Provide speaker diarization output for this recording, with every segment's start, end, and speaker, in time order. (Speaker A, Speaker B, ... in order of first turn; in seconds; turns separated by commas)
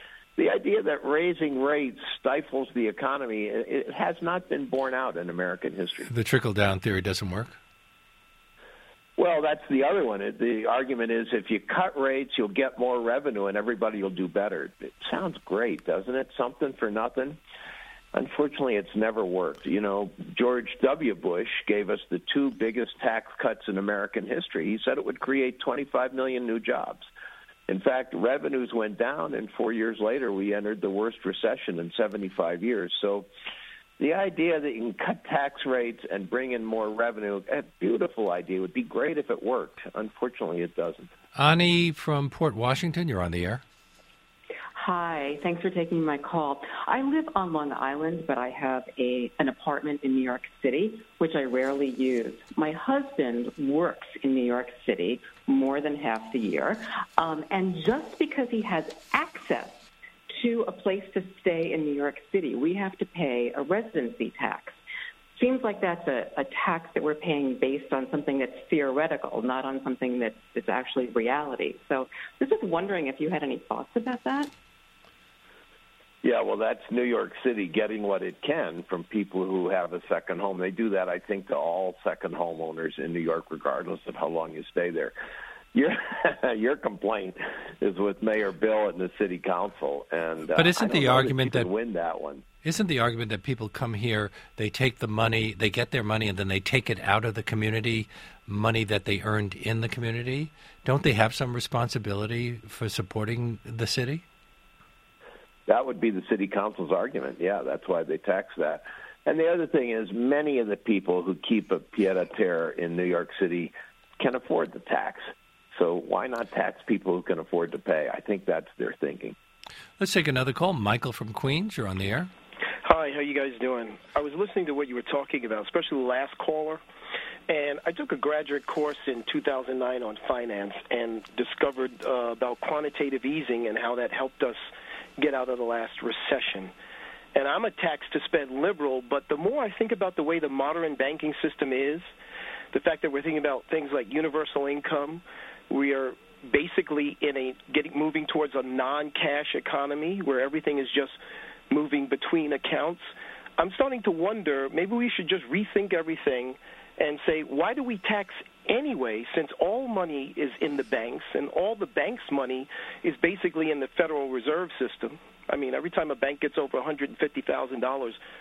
Speaker A: 0.4-6.1, Speaker B: 6.1-7.6, Speaker A: 9.2-17.4, Speaker A: 18.1-27.1, Speaker A: 27.7-33.3, Speaker A: 34.0-41.1, Speaker B: 41.4-43.6, Speaker C: 44.8-64.8, Speaker C: 65.4-74.5, Speaker A: 76.2-85.1, Speaker A: 85.7-92.4, Speaker B: 90.5-91.7, Speaker B: 92.6-104.2, Speaker A: 105.7-119.4, Speaker B: 120.0-122.3, Speaker D: 122.8-126.8, Speaker D: 127.5-134.7, Speaker D: 135.2-136.7, Speaker D: 137.3-142.1, Speaker D: 142.7-151.2, Speaker D: 151.7-168.2